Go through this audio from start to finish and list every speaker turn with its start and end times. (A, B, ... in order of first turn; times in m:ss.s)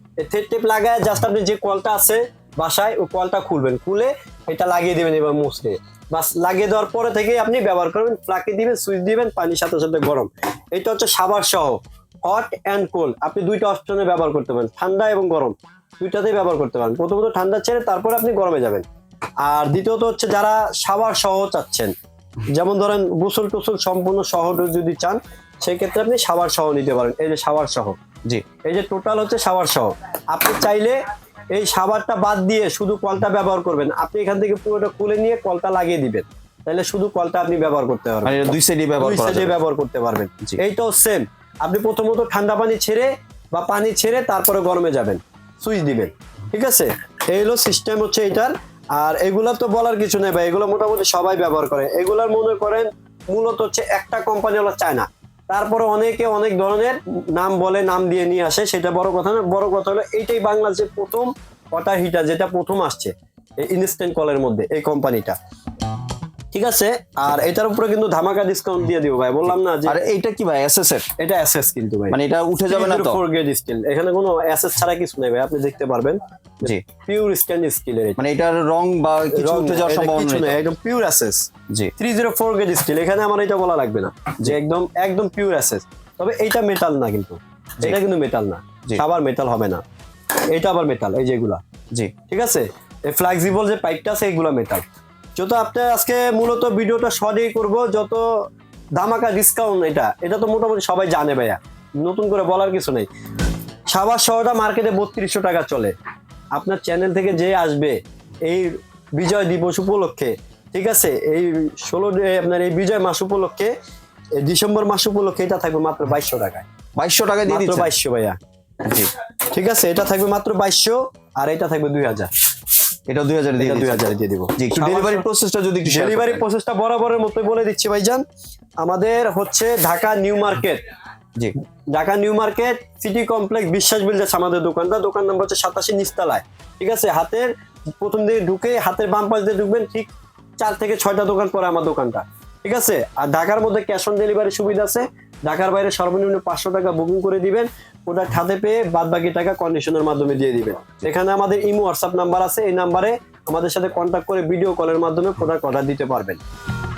0:00.2-0:18.8 A
0:19.4-0:21.9 A
0:22.5-0:28.0 A
0:28.6-0:31.0 A
0:31.5-0:38.4 A
0:38.2-0:39.6 B
0:39.0-1:05.4 A
1:06.5-1:10.0 A
1:09.5-1:11.1 B
1:11.2-1:18.2 A
1:12.1-1:13.2 B
1:18.2-1:20.6 B
1:19.3-1:29.8 A
1:30.5-1:31.6 A
1:32.3-1:34.8 A
1:35.4-1:38.5 A
1:39.0-1:43.1 A
1:43.9-1:45.9 A
1:46.5-1:53.7 A
1:54.4-1:56.7 A
1:57.0-1:57.9 B
1:57.5-1:58.4 A
1:58.8-1:59.1 B
1:59.5-2:02.3 A
2:03.1-2:06.4 B
2:03.6-2:05.2 A
2:05.9-2:08.2 A
2:08.8-2:10.8 A
2:11.9-2:17.5 A
2:18.0-2:36.4 A